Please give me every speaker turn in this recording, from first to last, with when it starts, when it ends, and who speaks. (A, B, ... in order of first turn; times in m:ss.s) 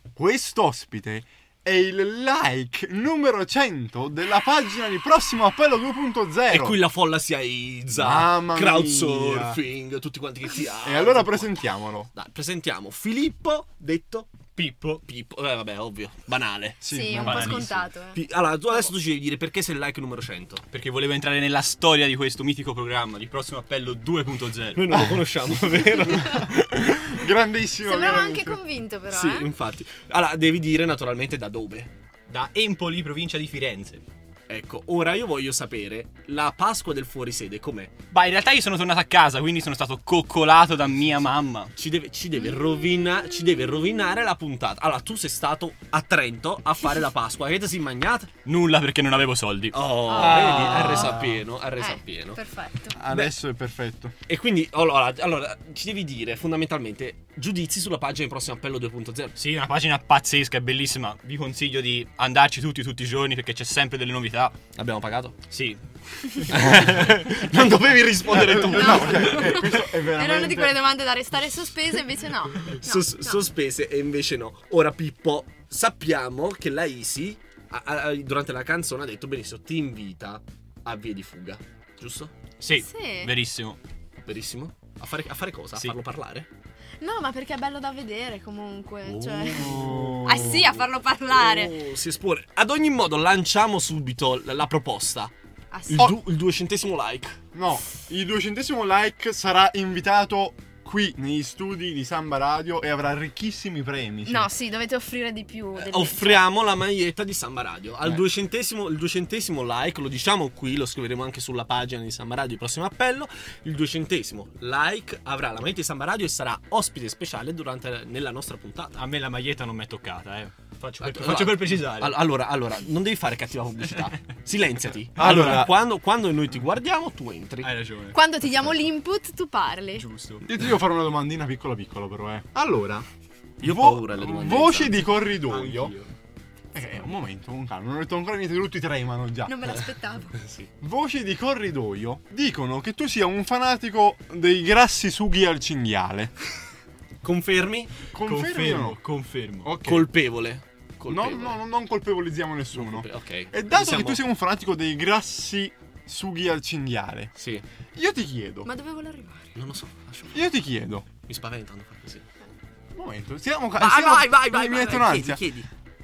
0:00.2-0:06.8 A
0:06.5-0:20.6 B
0:07.9-0:09.6 A
0:10.8-0:12.1 A
0:16.8-0:17.8 A
0:16.9-0:18.2 C
0:17.3-0:17.6 D
0:20.7-0:25.0 D
0:24.7-0:26.6 B
0:26.2-0:28.6 A
0:27.8-0:29.5 C
0:29.1-0:31.9 B
0:32.3-0:34.0 D
0:34.5-0:38.0 B
0:38.1-0:41.7 D
0:41.8-0:48.3 B
0:48.4-0:51.0 D
0:49.7-0:52.4 B
0:50.1-0:50.9 C
0:50.2-0:51.4 A
0:51.8-0:53.0 C
0:52.9-0:54.1 A
0:54.3-0:59.3 B
0:59.4-1:04.5 D
1:04.8-1:05.4 B
1:05.5-1:06.8 D
1:06.5-1:09.8 B
1:08.3-1:10.8 A
1:08.8-1:13.4 C
1:12.7-1:22.3 B
1:22.6-1:23.8 D
1:22.8-1:23.3 C
1:24.2-1:26.5 B
1:27.0-1:29.7 C
1:29.0-1:35.3 B
1:29.5-1:30.6 A
1:30.2-1:31.7 C
1:35.7-1:36.1 C
1:35.9-1:37.4 B
1:37.5-1:44.5 A
1:44.3-1:46.4 C
1:45.8-1:59.0 B
1:59.0-2:02.2 D
2:01.0-2:07.7 B
2:05.2-2:05.7 A
2:07.6-2:08.7 D
2:08.1-2:10.0 C
2:10.0-2:10.4 D
2:10.4-2:13.0 A
2:13.6-2:15.1 B
2:13.6-2:15.9 A
2:15.5-2:16.1 D
2:16.7-2:19.6 A
2:19.4-2:20.3 C
2:20.8-2:26.3 A
2:27.2-2:28.1 B
2:28.1-2:29.0 A
2:28.2-2:30.0 D
2:29.6-2:30.0 A
2:29.7-2:31.6 B
2:31.1-2:37.3 A
2:32.7-2:34.2 B
2:37.4-2:37.6 B
2:37.9-2:38.7 A
2:38.6-2:39.5 C
2:39.6-2:40.5 B
2:40.3-2:41.1 A
2:41.2-2:42.2 B
2:42.9-2:45.4 A
2:43.8-2:45.7 B